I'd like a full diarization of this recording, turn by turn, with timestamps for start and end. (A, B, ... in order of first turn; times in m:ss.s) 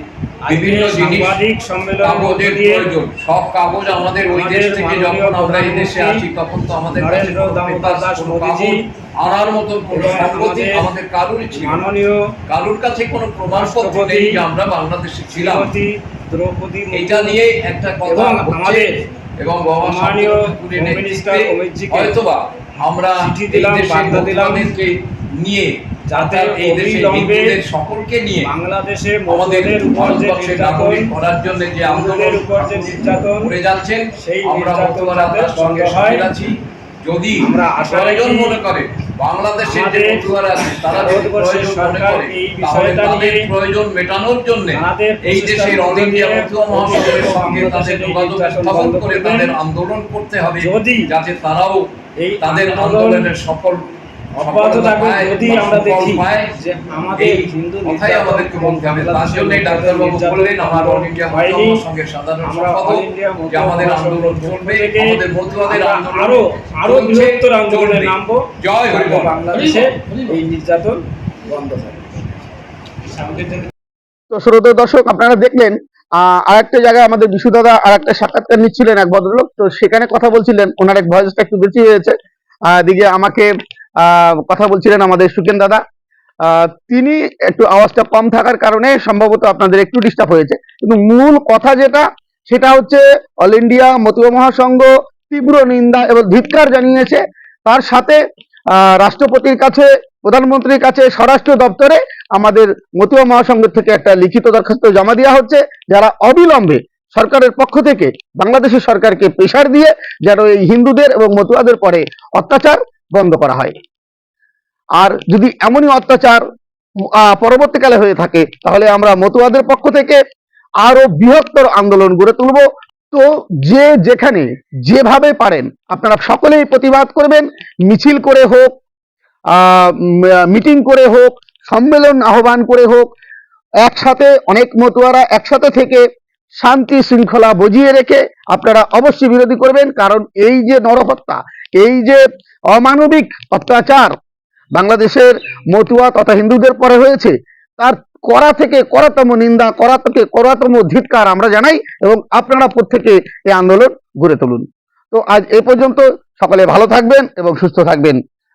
0:00.4-0:02.9 A
0:00.5-0:01.4 B
0:02.0-0:11.9 B
0:04.3-0:06.2 A
0:06.9-0:08.8 A
0:09.9-0:10.9 A
0:11.6-0:12.2 A
0:12.5-0:15.7 B
0:13.5-0:14.4 A
0:15.3-0:17.4 A
0:16.9-0:18.9 B
0:18.0-0:18.9 A
0:19.4-0:28.5 B
0:19.8-0:22.2 A
0:23.2-0:24.7 A
0:26.1-0:27.5 A
0:28.4-0:31.1 A
0:29.3-0:51.8 B
0:31.8-0:33.5 A
0:34.2-0:36.3 A
0:37.4-0:38.6 A
0:39.6-0:40.3 A
0:40.9-0:43.4 A
0:44.7-0:49.5 A
0:50.6-0:51.1 A
0:52.2-0:53.3 A
0:52.4-0:53.8 B
0:54.4-1:01.8 A
0:54.4-0:56.5 B
0:57.1-1:09.4 B
1:02.4-1:11.0 A
1:11.5-1:11.8 A
1:13.1-1:13.7 A
1:14.3-1:22.1 C
1:22.7-1:23.5 C
1:24.0-1:25.8 C
1:26.5-1:38.2 C
1:38.8-1:53.7 C
1:55.0-1:56.4 C
1:57.2-2:00.2 C
2:00.8-2:08.7 C
2:09.5-2:13.1 C
2:13.8-2:16.0 C
2:16.6-2:22.2 C
2:22.7-2:24.1 C
2:24.7-2:38.2 C